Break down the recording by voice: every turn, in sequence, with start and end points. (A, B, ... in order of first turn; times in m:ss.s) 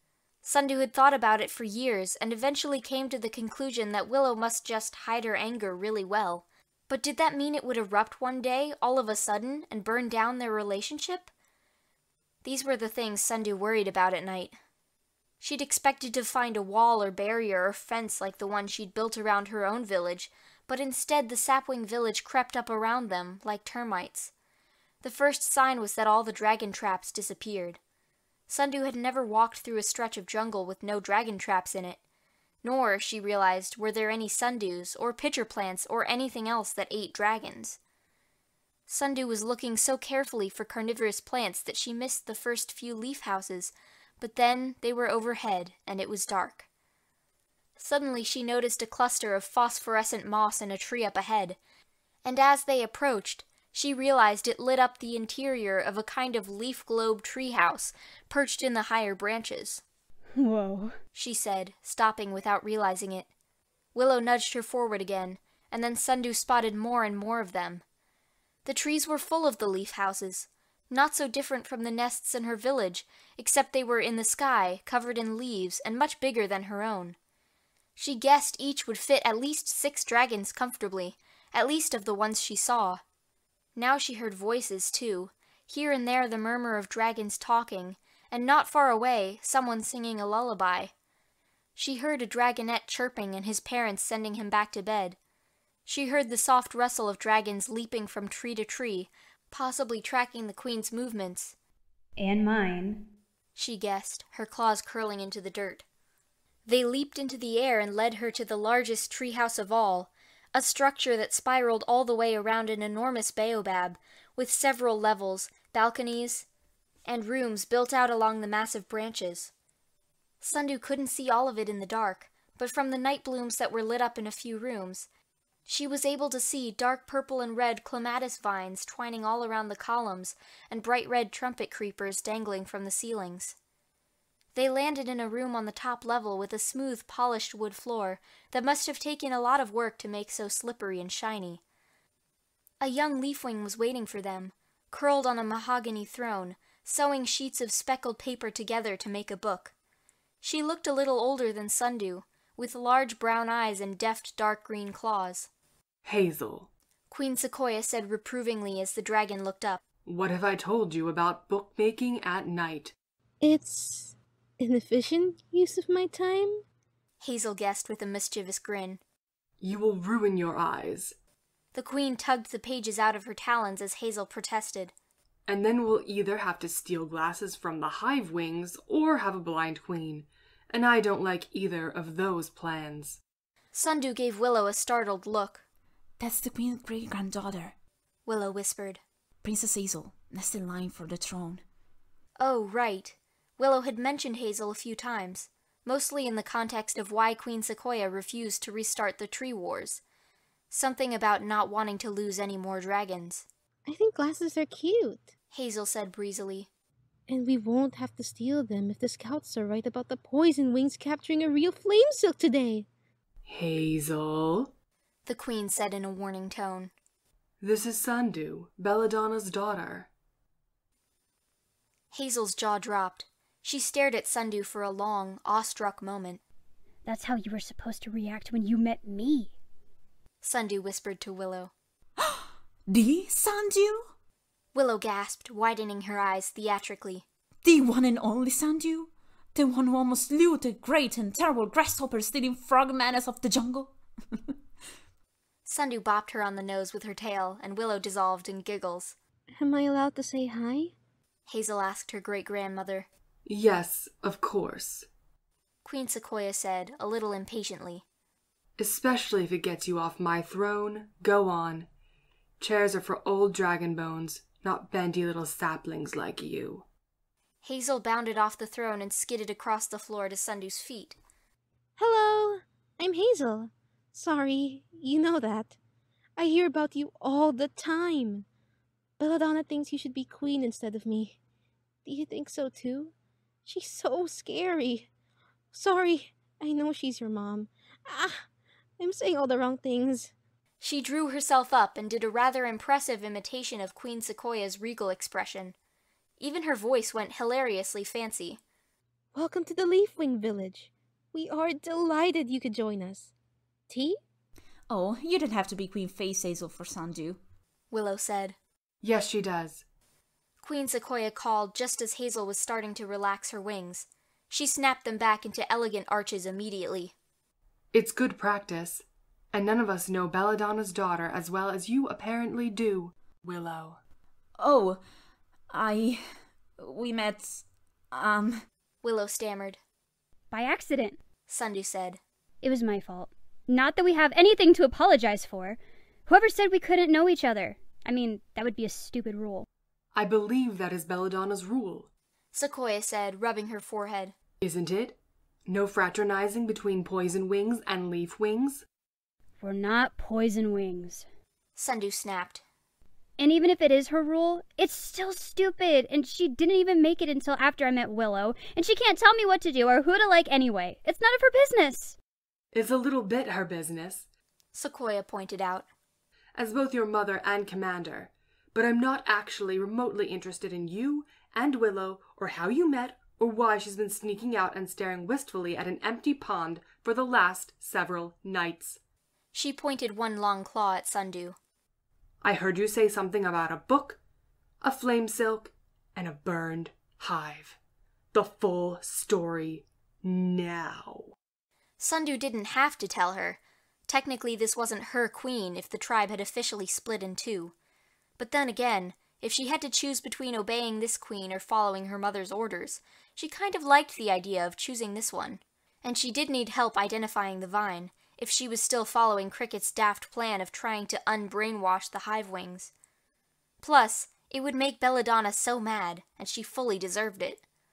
0:00.4-0:11.3 A
0:12.4-0:14.6 A
0:15.4-0:24.3 A
0:25.0-0:27.8 A
0:28.5-0:32.0 A
0:32.6-0:37.8 A
0:38.9-0:46.7 A
0:47.8-0:51.6 A
0:52.2-0:59.8 A
1:00.3-1:01.0 B
1:01.1-1:03.3 A
1:03.9-1:07.8 A
1:08.6-1:17.2 A
1:18.0-1:23.0 A
1:23.8-1:30.9 A
1:31.8-1:35.2 A
1:35.8-1:41.5 A
1:42.2-1:43.0 B
1:43.5-1:45.8 A
1:46.6-1:56.4 A
1:57.0-1:59.5 A
2:00.4-2:05.1 A
2:05.6-2:13.6 A
2:14.5-2:21.6 A
2:22.8-2:29.7 A
2:30.4-2:35.5 A
2:36.0-2:36.7 C
2:37.1-2:39.8 A
2:40.0-2:42.9 C
2:43.4-2:46.6 D
2:47.2-2:49.0 A
2:49.6-2:51.1 C
2:51.7-2:54.9 A
2:55.5-3:03.2 C
3:03.7-3:05.6 A
3:06.2-3:07.7 E
3:08.2-3:09.0 A
3:09.4-3:11.6 E
3:12.4-3:20.0 A
3:20.7-3:23.4 A
3:23.8-3:25.3 D
3:25.5-3:26.7 A
3:27.3-3:32.9 D
3:33.4-3:34.7 C
3:35.2-3:36.9 A
3:37.6-3:40.1 C
3:42.1-3:46.4 A
3:47.0-3:49.5 B
3:50.4-3:51.7 A
3:52.2-3:54.1 E
3:54.7-3:57.2 A
3:57.6-4:04.5 E
4:05.6-4:09.2 A
4:09.5-4:10.9 D
4:11.5-4:13.1 A
4:13.4-4:15.0 C
4:15.8-4:18.0 A
4:18.8-4:21.9 C
4:22.6-4:26.8 C
4:27.6-4:31.2 A
4:32.0-4:35.8 D
4:36.4-4:38.4 D
4:39.2-4:41.4 D
4:42.0-4:43.1 D
4:43.6-4:45.1 D
4:45.7-4:48.5 D
4:49.0-4:50.3 D
4:50.8-4:55.8 A
4:56.4-4:58.6 A
4:59.3-5:03.3 D
5:03.9-5:04.2 D
5:04.9-5:07.4 E
5:07.9-5:08.6 A
5:09.0-5:09.8 C
5:10.6-5:17.1 A
5:17.9-5:24.0 C
5:24.6-5:25.0 E
5:25.7-5:28.6 E
5:29.0-5:29.8 A
5:30.5-5:31.2 B
5:31.5-5:32.2 A
5:32.6-5:39.7 B
5:40.1-5:42.1 C
5:42.5-5:44.3 A
5:44.6-5:48.8 C
5:49.6-5:51.2 B
5:51.8-5:52.6 A
5:53.4-6:02.2 B
6:02.7-6:04.2 C
6:04.7-6:05.9 A
6:06.5-6:19.0 C
6:19.5-6:21.6 A
6:22.4-6:24.2 C
6:24.8-6:27.8 C
6:28.3-6:31.3 C
6:32.0-6:37.7 A
6:38.4-6:52.9 A
6:53.8-6:57.6 A